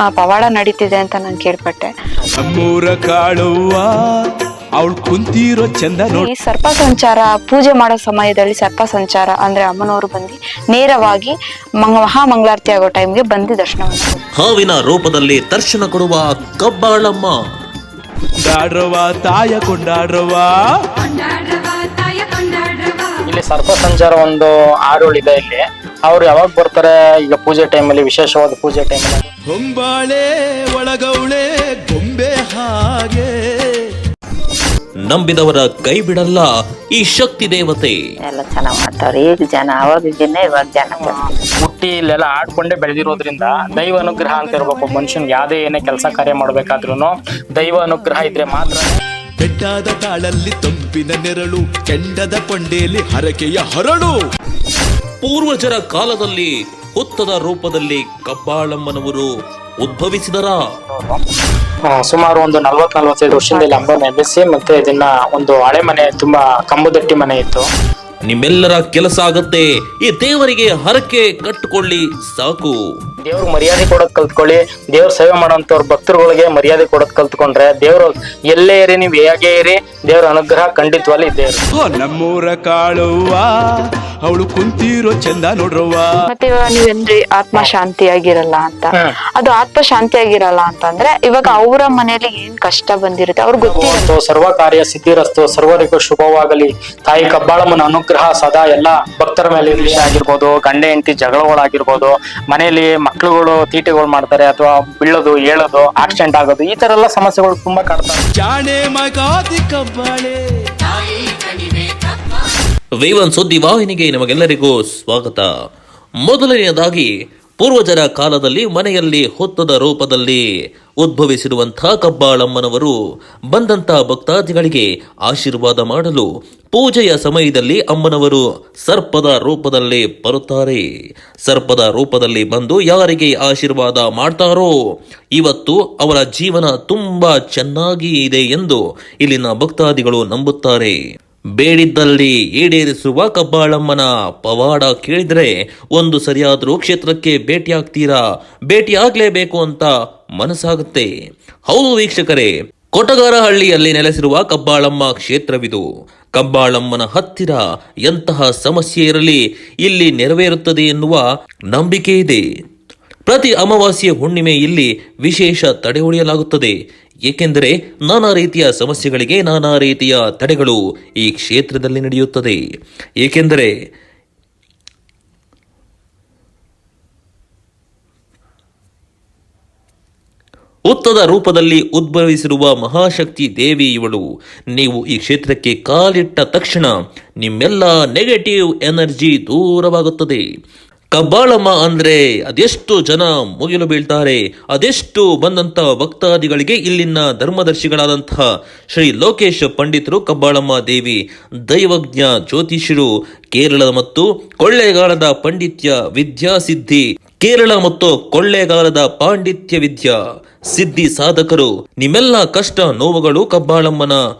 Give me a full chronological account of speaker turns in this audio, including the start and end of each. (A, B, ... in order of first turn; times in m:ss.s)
0:00.1-0:01.9 A
0:02.4-0:06.3 B
0:06.1-0:14.2 A
0:14.4-0:17.4 C
0:18.4-0:20.8 B
0:21.0-0:23.2 A
0:23.3-0:29.3 D
0:29.5-0:34.0 B
0:35.1-0:38.0 C
0:38.2-0:41.2 E
0:41.0-0:49.0 D
0:49.4-0:54.2 B
0:55.2-0:59.3 C
0:59.8-1:00.6 C
1:00.9-1:01.2 D
1:01.9-1:07.7 D
1:03.5-1:03.9 A
1:08.3-1:12.8 C
1:13.2-1:21.6 D
1:21.7-1:26.1 B
1:26.3-1:34.1 A
1:33.6-1:48.2 D
1:39.6-1:40.1 B
1:48.3-1:51.5 B
1:53.0-1:55.5 C
1:56.2-2:00.4 C
2:01.0-2:02.9 C
2:03.5-2:10.8 C
2:11.4-2:14.7 C
2:15.4-2:21.0 C
2:21.6-2:31.1 C
2:31.7-2:35.8 C
2:36.4-2:42.4 C
2:43.3-2:46.7 C
2:47.2-2:52.6 C
2:53.2-2:53.7 C
3:00.9-3:04.2 C
3:04.7-3:10.4 C
3:11.1-3:21.2 C
3:21.7-3:30.1 C
3:30.7-3:34.2 C